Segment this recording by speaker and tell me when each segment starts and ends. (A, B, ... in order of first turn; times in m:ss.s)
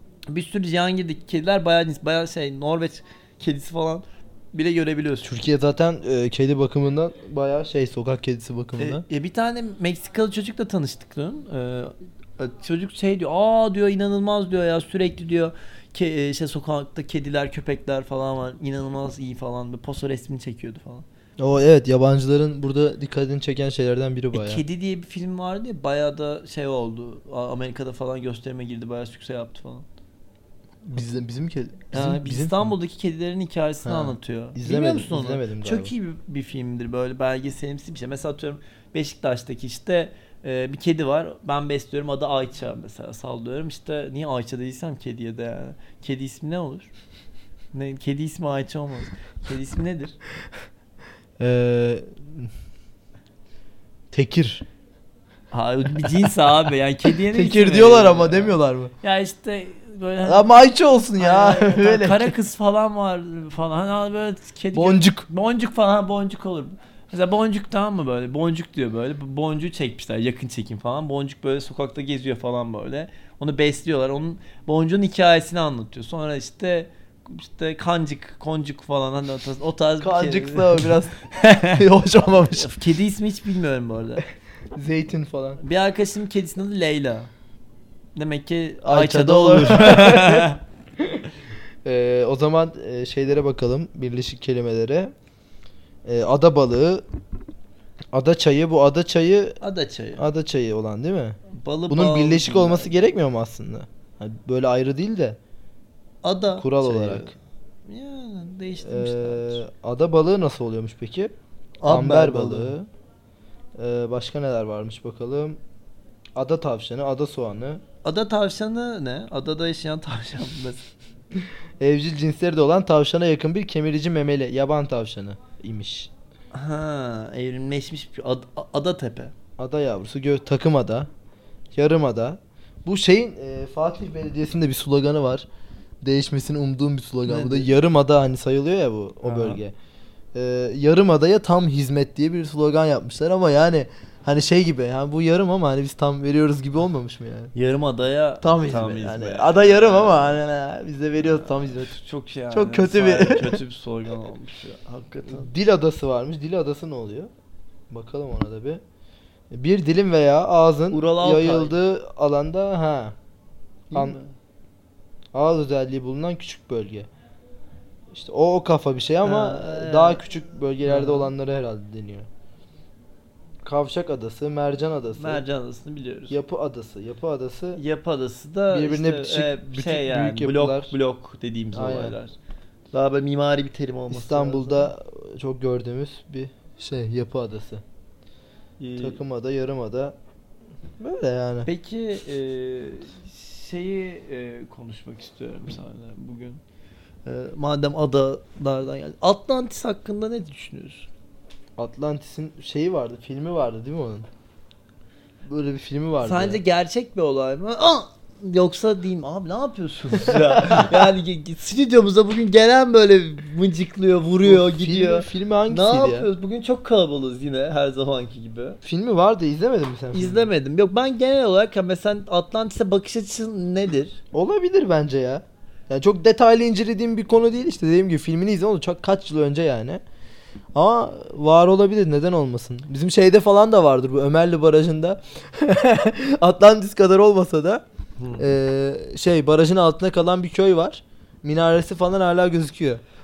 0:00.3-0:05.3 A
0:05.2-0:09.0 B
0:08.8-0:21.0 A
0:21.4-0:24.6 B
0:24.3-0:29.8 A
0:30.8-0:32.7 B
0:31.9-0:46.9 A
0:33.8-0:35.9 B
0:47.7-0:50.2 A
0:51.4-0:52.5 B
0:54.1-0:54.6 B
0:55.5-1:00.5 A
0:57.2-0:58.9 B
1:00.2-1:02.4 B
1:01.2-1:21.8 A
1:04.7-1:05.3 B
1:20.0-1:22.7 B
1:22.5-1:24.2 A
1:24.8-1:25.6 B
1:25.6-1:27.3 A
1:28.2-1:30.6 A
1:28.8-1:30.5 B
1:31.8-1:35.1 B
1:36.0-1:37.0 B
1:38.1-1:39.6 B
1:39.6-1:40.2 A
1:40.2-1:41.4 B
1:41.5-1:43.1 A
1:41.9-1:45.4 B
1:46.2-1:47.3 A
1:46.5-1:47.3 B
1:47.9-1:49.6 A
1:48.8-1:51.4 B
1:51.8-1:52.8 A
1:51.9-1:52.9 B
1:53.8-1:55.6 B
1:56.4-1:57.8 B
1:58.0-2:00.8 A
2:01.8-2:06.1 B
2:06.5-2:09.3 A
2:09.6-2:11.1 B
2:11.8-2:15.5 B
2:16.0-2:19.7 B
2:17.2-2:17.7 A
2:19.2-2:19.6 A
2:20.3-2:27.5 B
2:27.5-2:30.4 A
2:28.4-2:31.9 B
2:31.2-2:35.5 A
2:32.5-2:33.6 B
2:35.3-2:37.3 B
2:37.9-2:38.8 B
2:39.5-2:43.2 B
2:40.9-2:41.8 A
2:43.9-2:44.3 A
2:45.3-2:47.1 B
2:48.1-2:52.3 B
2:49.2-2:50.2 A
2:50.8-2:51.3 A
2:53.6-2:55.4 B
2:55.2-2:56.4 A
2:56.3-2:57.8 B
2:57.8-3:02.4 A
2:58.7-3:01.0 B
3:01.7-3:02.2 B
3:02.9-3:04.9 A
3:04.1-3:07.8 B
3:08.8-3:09.2 A
3:09.0-3:10.2 B
3:11.0-3:11.7 B
3:11.6-3:16.6 A
3:17.2-3:21.1 A
3:21.8-3:24.3 B
3:25.5-3:26.6 B
3:26.2-3:38.8 A
3:30.3-3:31.0 B
3:34.4-3:36.3 B
3:38.8-3:40.5 B
3:40.1-3:44.2 A
3:44.3-3:50.0 B
3:50.8-3:57.8 B
3:58.2-3:58.5 A
3:58.4-4:03.0 B